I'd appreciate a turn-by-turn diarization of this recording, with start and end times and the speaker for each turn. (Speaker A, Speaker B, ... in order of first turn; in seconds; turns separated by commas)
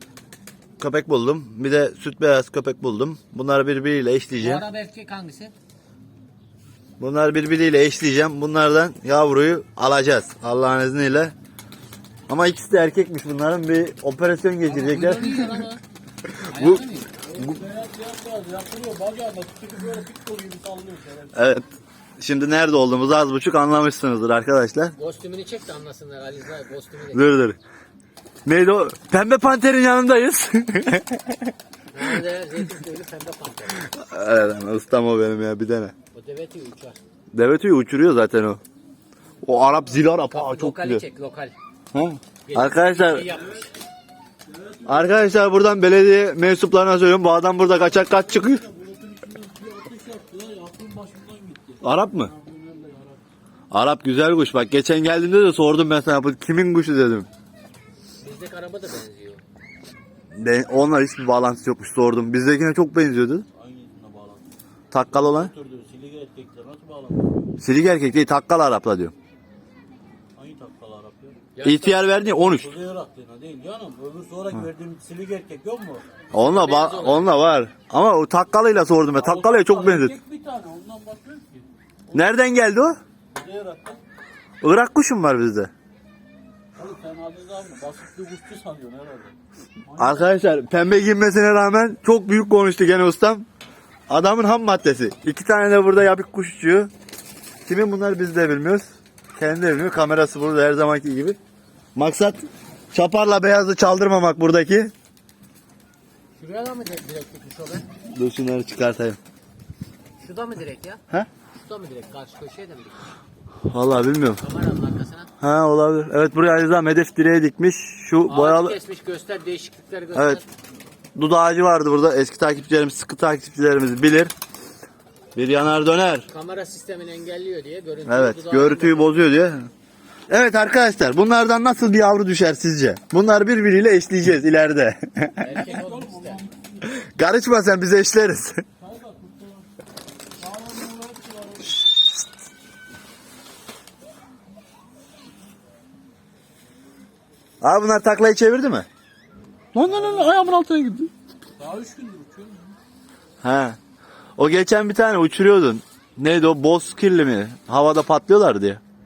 Speaker A: 0.8-4.6, Speaker B: 4.4-5.5, Speaker A: 7.0-11.3, Speaker A: 12.3-15.7, Speaker B: 14.6-15.8, Speaker A: 16.4-16.8, Speaker B: 16.5-17.1, Speaker C: 17.2-21.6, Speaker A: 21.4-21.6, Speaker A: 22.2-24.9, Speaker B: 25.0-27.2, Speaker A: 27.1-27.6, Speaker A: 28.4-31.5, Speaker B: 31.9-33.9, Speaker A: 33.7-35.9, Speaker B: 36.1-37.0, Speaker A: 37.3-38.6, Speaker A: 39.4-41.0, Speaker B: 40.3-41.5, Speaker A: 41.9-43.3, Speaker B: 42.4-43.7, Speaker C: 43.3-43.7, Speaker C: 44.5-45.3, Speaker A: 44.9-48.6, Speaker C: 47.8-53.2, Speaker A: 51.8-52.3, Speaker A: 53.7-57.3, Speaker B: 58.2-59.4, Speaker A: 60.4-63.5, Speaker C: 63.5-64.5, Speaker A: 64.9-65.5, Speaker C: 65.1-67.5, Speaker A: 67.6-69.1, Speaker C: 70.3-71.5, Speaker B: 71.5-72.1, Speaker A: 71.6-72.7, Speaker C: 72.2-76.0, Speaker A: 76.3-80.2, Speaker B: 76.3-77.3, Speaker C: 79.2-82.3, Speaker A: 82.1-83.0, Speaker C: 83.3-84.0, Speaker A: 84.6-85.7, Speaker C: 86.8-90.3, Speaker A: 90.0-93.5, Speaker A: 94.1-96.9, Speaker A: 97.6-101.4, Speaker A: 101.9-104.9, Speaker B: 106.3-107.8, Speaker A: 108.1-109.2, Speaker B: 110.2-111.0, Speaker B: 111.5-113.0, Speaker A: 113.7-114.4, Speaker B: 114.4-115.3, Speaker A: 115.4-118.8, Speaker B: 118.3-120.5, Speaker A: 120.1-120.4, Speaker A: 121.2-124.3, Speaker A: 125.3-126.3, Speaker B: 126.3-129.3, Speaker A: 128.1-129.7, Speaker A: 130.3-135.5, Speaker B: 135.4-136.4, Speaker C: 135.5-136.9, Speaker A: 136.8-138.6, Speaker C: 138.8-139.7, Speaker C: 140.4-141.8, Speaker A: 147.6-148.9, Speaker C: 149.8-150.7, Speaker A: 149.8-151.1, Speaker C: 151.6-152.8, Speaker A: 153.4-153.8, Speaker A: 154.4-158.8